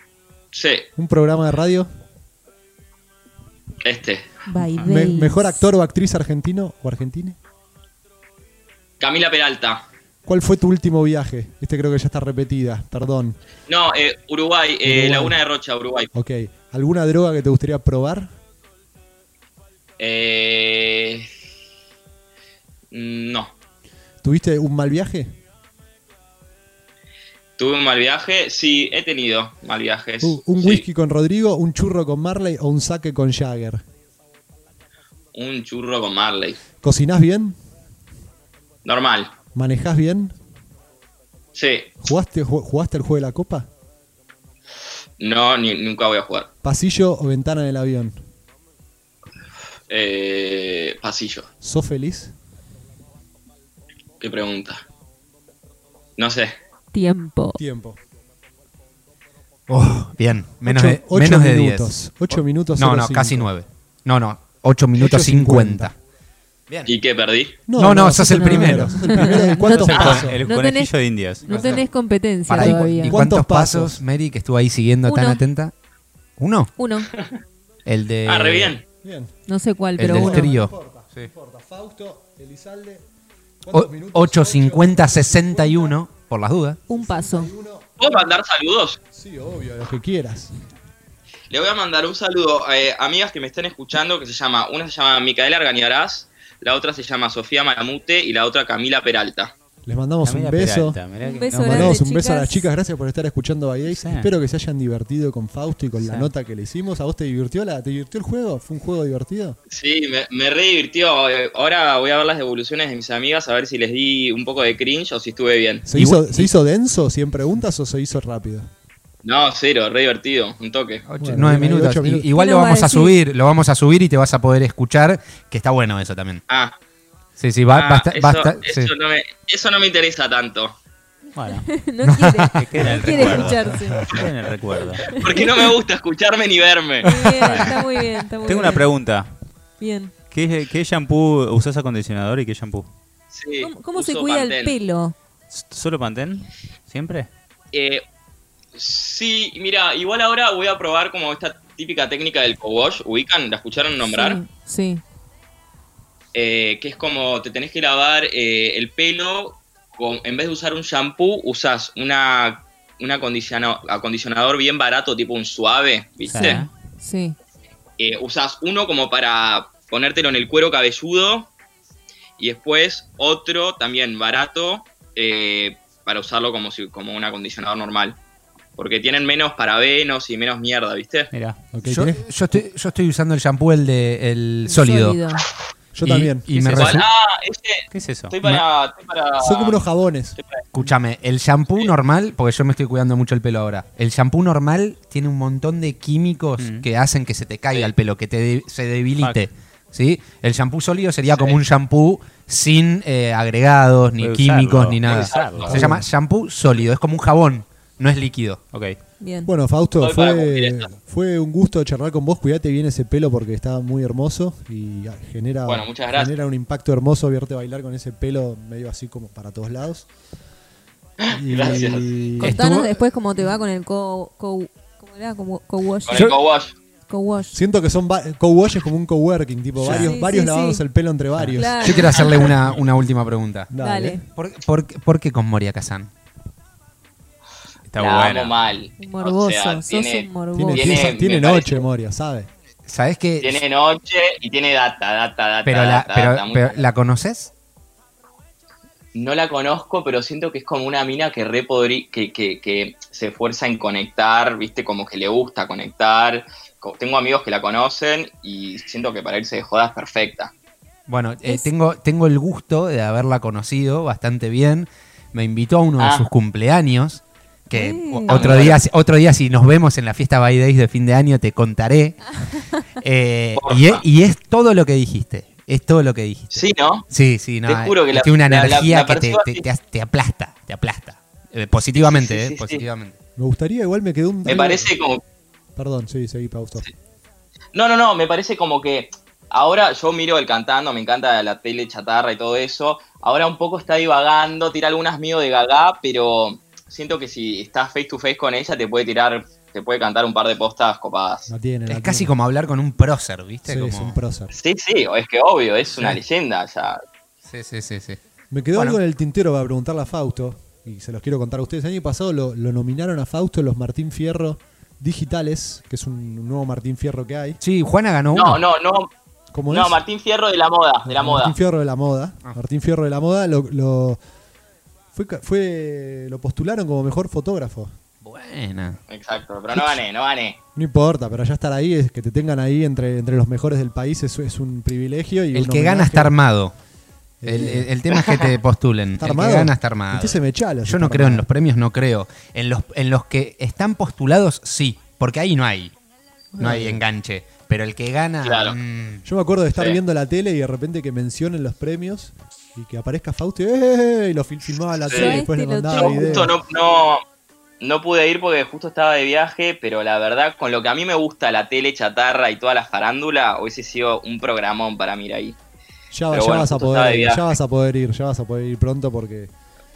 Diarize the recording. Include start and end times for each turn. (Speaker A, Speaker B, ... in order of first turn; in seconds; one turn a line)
Speaker A: 0.5-0.9
Speaker B: 0.9-1.9
Speaker A: 3.8-4.3
Speaker C: 4.5-5.6
Speaker D: 4.6-4.9
Speaker B: 4.8-7.4
Speaker A: 9.0-9.8
Speaker B: 10.2-13.4
Speaker A: 13.7-16.1
Speaker B: 14.8-15.4
Speaker B: 16.1-18.3
Speaker A: 20.0-21.3
Speaker A: 22.9-23.5
Speaker B: 24.2-25.3
Speaker A: 27.6-30.9
Speaker B: 30.2-33.8
Speaker A: 35.3-36.6
Speaker B: 36.8-37.6
Speaker A: 38.8-39.3
Speaker B: 39.5-40.3
Speaker A: 41.5-41.9
Speaker B: 42.0-43.7
Speaker A: 45.2-46.5
Speaker B: 46.6-48.2
Speaker A: 49.9-51.5
Speaker B: 51.6-52.3
Speaker A: 54.2-54.8
Speaker A: 56.2-56.5
Speaker C: 56.9-57.6
Speaker B: 57.6-58.0
Speaker E: 59.7-65.9
Speaker B: 60.6-63.5
Speaker B: 65.0-65.9
Speaker A: 66.8-67.6
Speaker B: 67.7-70.4
Speaker E: 67.8-69.3
Speaker C: 68.1-73.2
Speaker D: 69.6-71.8
Speaker B: 71.4-71.9
Speaker E: 72.5-75.7
Speaker B: 72.5-74.0
Speaker C: 75.0-75.4
Speaker E: 76.4-76.7
Speaker C: 76.8-77.1
Speaker E: 77.8-78.8
Speaker A: 78.2-78.8
Speaker B: 79.0-79.3
Speaker C: 79.5-80.5
Speaker E: 80.0-81.3
Speaker B: 80.0-83.0
Speaker B: 83.6-86.0
Speaker E: 83.7-86.8
Speaker C: 86.9-87.5
Speaker B: 86.9-88.1
Speaker A: 88.0-89.0
Speaker B: 89.1-90.5
Speaker A: 91.5-99.5
Speaker B: 99.8-101.0
Speaker D: 100.2-102.0
Speaker C: 101.2-102.7
Speaker B: 101.6-109.6
Speaker D: 103.8-104.3
Speaker D: 106.0-106.3
Speaker A: 109.7-115.9
Speaker B: 115.9-118.7
Speaker E: 115.9-116.5
Speaker A: 119.2-121.0
Speaker E: 121.1-126.4
Speaker B: 121.2-122.3
Speaker C: 122.3-123.2
Speaker A: 126.5-126.8
Speaker E: 127.4-128.9
Speaker A: 127.7-130.8
Speaker D: 131.3-131.7
Speaker C: 131.7-134.2
Speaker E: 132.0-132.6
Speaker D: 132.6-135.2
Speaker B: 133.7-134.2
Speaker C: 135.0-135.4
Speaker A: 135.0-137.7
Speaker C: 137.0-138.9
Speaker D: 137.1-137.8
Speaker D: 138.4-139.3
Speaker C: 139.8-140.1
Speaker D: 140.3-142.9
Speaker A: 143.3-144.8
Speaker C: 143.6-145.1
Speaker D: 145.5-147.3
Speaker A: 147.7-148.0
Speaker A: 148.7-154.4
Speaker C: 154.0-155.0
Speaker A: 156.3-166.6
Speaker D: 166.2-166.7
Speaker C: 166.3-167.3
Speaker A: 168.0-171.5
Speaker A: 172.4-178.2
Speaker A: 178.8-181.3
Speaker D: 181.3-181.6
Speaker B: 181.7-182.2
Speaker E: 181.8-185.2
Speaker C: 184.7-185.4
Speaker B: 185.9-186.4
Speaker E: 186.0-187.1
Speaker D: 186.4-187.0
Speaker A: 186.7-190.7
Speaker D: 187.9-188.6
Speaker B: 189.4-190.4
Speaker E: 190.7-208.6
Speaker D: 196.6-196.8
Speaker A: 201.3-201.6
Speaker D: 204.2-205.9
Speaker A: 205.1-205.7
Speaker B: 205.6-206.1
Speaker C: 209.2-209.5
Speaker B: 209.4-220.1
Speaker A: 210.0-210.9
Speaker A: 215.6-216.3
Speaker A: 221.2-222.1
Speaker B: 221.3-222.6
Speaker E: 222.4-223.0
Speaker C: 222.4-226.3
Speaker A: 226.0-226.7
Speaker C: 227.1-227.6
Speaker B: 227.5-232.2
Speaker E: 229.8-230.1
Speaker C: 229.9-230.8
Speaker E: 231.4-233.7
Speaker C: 231.5-232.3
Speaker B: 233.7-234.2
Speaker C: 233.8-234.2
Speaker E: 234.3-236.1
Speaker D: 237.9-238.6
Speaker A: 238.0-241.9
Speaker C: 239.0-241.0
Speaker B: 240.5-242.5
Speaker E: 242.9-243.6
Speaker A: 243.4-246.8
Speaker E: 245.6-247.5
Speaker A: 249.1-260.5
Speaker E: 261.1-283.1
Speaker A: 266.0-266.3
Speaker C: 267.7-268.5
Speaker A: 268.3-268.8
Speaker A: 273.6-274.0
Speaker A: 276.5-277.1
Speaker A: 277.6-279.6
Speaker A: 281.9-282.9
Speaker B: 283.4-284.9
Speaker A: 284.4-285.2
Speaker B: 285.7-286.8
Speaker A: 287.7-301.5
Speaker B: 301.5-302.3
Speaker E: 301.9-304.2
Speaker B: 303.6-304.5
Speaker A: 304.5-307.0
Speaker E: 307.4-308.2
Speaker B: 308.5-317.6
Speaker E: 308.7-309.0
Speaker E: 317.6-318.6
Speaker A: 318.3-319.1
Speaker B: 319.5-320.0
Speaker A: 319.7-321.6
Speaker B: 321.0-324.2
Speaker B: 325.1-327.9
Speaker E: 328.2-329.0
Speaker A: 329.1-330.6
Speaker E: 329.7-330.0
Speaker B: 330.7-336.3
Speaker E: 335.5-336.7
Speaker B: 337.4-337.9
Speaker E: 337.4-345.9
Speaker A: 338.1-338.5
Speaker B: 339.2-341.4
Speaker B: 346.5-347.0
Speaker E: 346.6-349.2
Speaker A: 348.4-348.8
Speaker B: 349.2-356.6
Speaker A: 355.0-357.2
Speaker C: 355.1-356.5
Speaker A: 357.8-365.6
Speaker B: 366.1-369.5
Speaker A: 366.3-367.4